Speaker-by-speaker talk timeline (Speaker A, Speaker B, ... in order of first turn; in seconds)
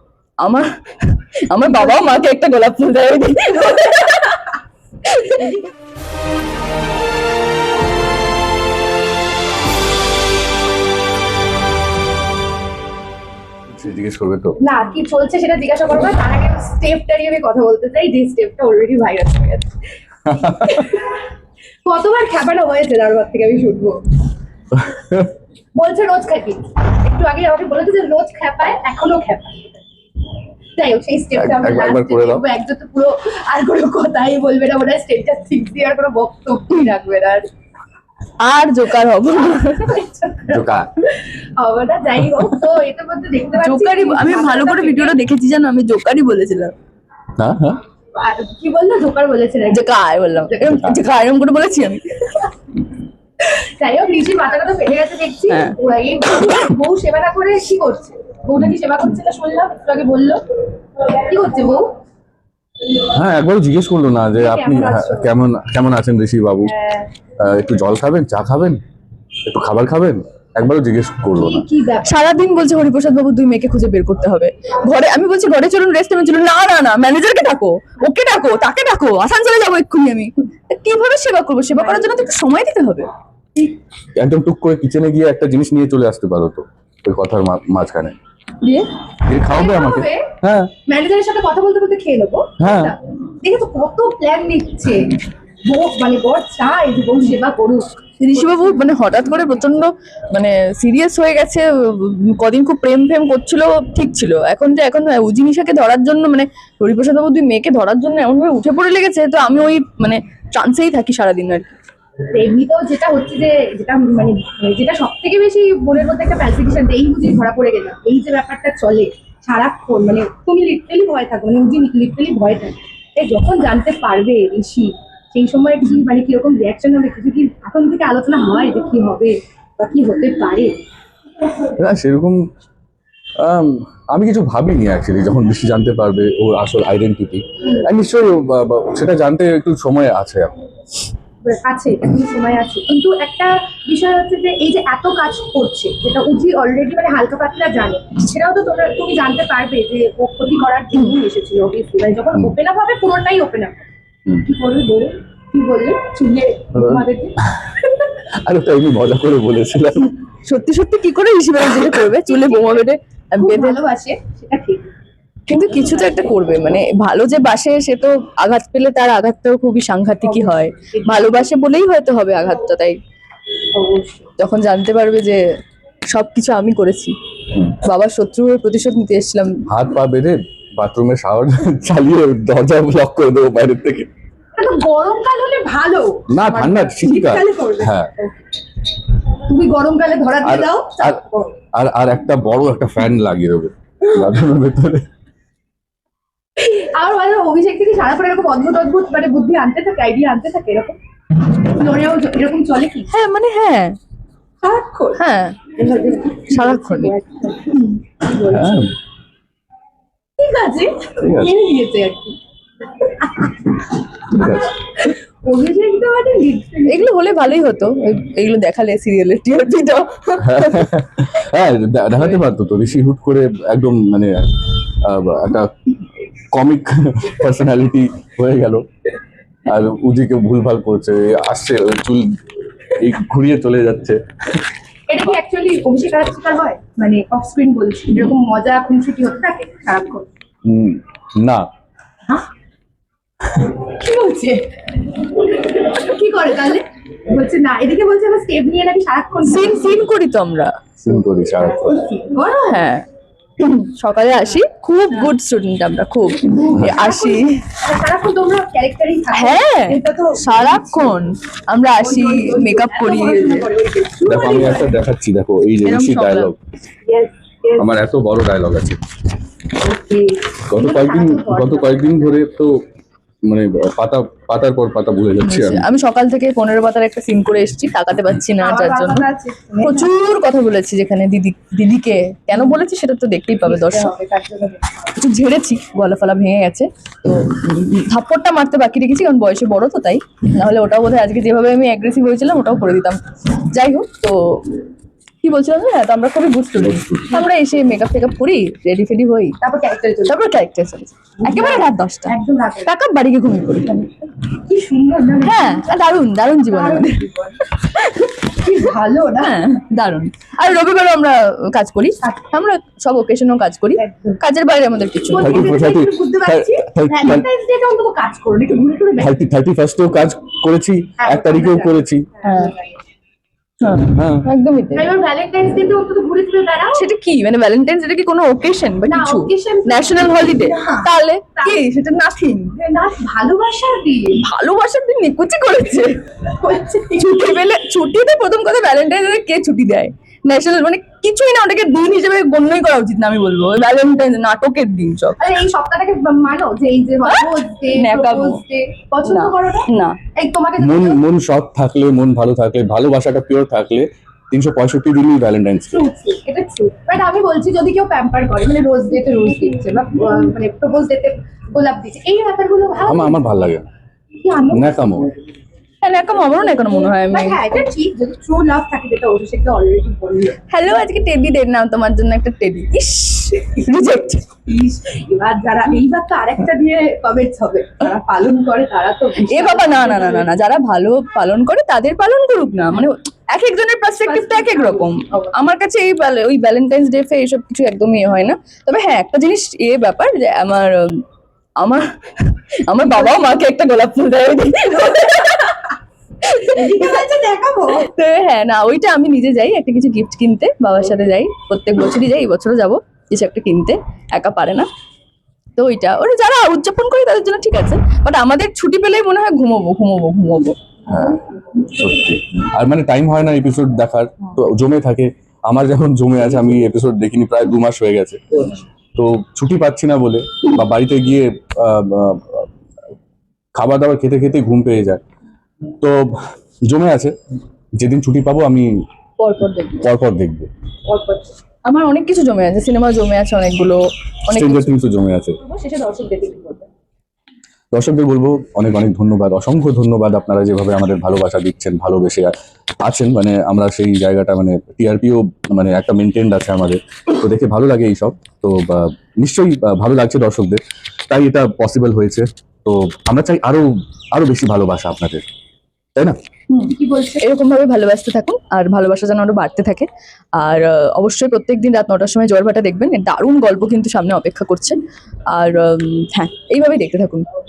Speaker A: 0.4-4.5, 5.1-5.5, 38.4-40.0, 43.6-46.7, 49.7-52.5, 55.5-55.8, 72.0-83.1, 98.2-111.7, 160.4-163.8, 165.5-173.0, 174.4-175.4, 176.1-177.1, 177.8-179.6, 203.1-204.0, 205.2-205.6, 206.5-207.1, 216.9-220.9, 249.4-250.7, 252.7-253.1, 253.6-257.6, 259.3-263.7, 265.8-266.5, 275.4-279.2, 279.8-284.1, 285.2-294.4, 295.4-299.6, 300.3-304.1, 305.4-307.2, 307.8-308.5, 309.4-315.6, 322.4-322.7, 323.8-325.1, 326.9-332.8, 334.4-336.1, 337.1-345.4, 347.2-348.6, 349.2-350.2, 366.0-367.8, 370.7-374.4, 379.4-391.2, 391.8-395.9, 396.4-397.1, 397.9-404.9, 405.8-410.8, 429.4-430.0, 431.9-434.9, 456.7-460.1, 460.6-465.0, 465.5-467.5
Speaker B: 1.7-2.1, 5.4-5.7, 14.6-19.7, 20.5-21.2, 21.9-24.0, 25.8-29.8, 30.8-37.5, 39.5-45.2, 48.1-49.9, 50.5-50.9, 53.5-60.4, 61.0-61.9, 64.3-65.3, 66.7-67.1, 71.4-72.1, 81.8-82.2, 89.5-90.3, 90.9-98.9, 112.3-130.7, 141.4-153.8, 154.4-157.4, 162.3-162.9, 163.4-164.8, 170.2-171.5, 173.8-174.3, 184.6-188.3, 189.5-191.6, 196.6-201.0, 201.6-203.1, 204.6-205.2, 205.7-208.9, 210.4-212.4, 213.0-213.9, 215.0-217.1, 235.1-240.3, 243.6-250.1, 251.6-252.8, 256.6-261.2, 262.0-265.1, 267.1-267.9, 269.8-272.4, 278.6-280.1, 282.5-282.8, 283.6-285.1, 299.6-300.4, 301.4-302.9, 304.7-305.9, 306.6-307.8, 308.4-309.6, 314.0-314.4, 315.3-319.4, 321.2-323.0, 324.9-327.0, 329.1-331.8, 332.8-334.4, 336.6-337.6, 345.4-351.2, 355.9-363.5, 364.4-365.2, 367.1-370.6, 374.7-380.5, 384.2-385.5, 393.1-393.4, 396.7-398.1, 431.1-431.5, 435.6-436.9, 457.0-457.4
Speaker C: 13.7-14.6, 20.3-20.8, 24.7-25.3, 31.3-32.4, 40.5-40.9, 47.4-47.8, 63.0-66.7, 67.4-68.8, 69.5-71.7, 84.2-88.2, 89.3-90.7, 92.6-93.0, 131.8-132.4, 133.4-140.5, 156.8-157.7, 158.4-160.1, 179.7-184.1, 186.3-188.1, 190.4-191.2, 191.7-195.1, 208.5-208.9, 211.2-211.5, 214.3-214.8, 220.4-225.7, 226.5-228.8, 229.7-232.4, 233.0-234.2, 240.7-241.7, 251.0-252.0, 264.2-266.6, 267.8-269.0, 270.7-272.8, 273.5-275.9, 296.8-297.4, 315.4-317.5, 319.2-322.3, 324.1-324.4, 350.8-356.0, 363.1-363.9, 364.7-365.3, 411.1-418.6, 419.1-422.7, 423.8-425.2, 426.0-426.4, 426.9-427.4, 428.0-429.0, 430.0-430.7, 434.5-435.6, 437.9-442.5, 443.0-455.4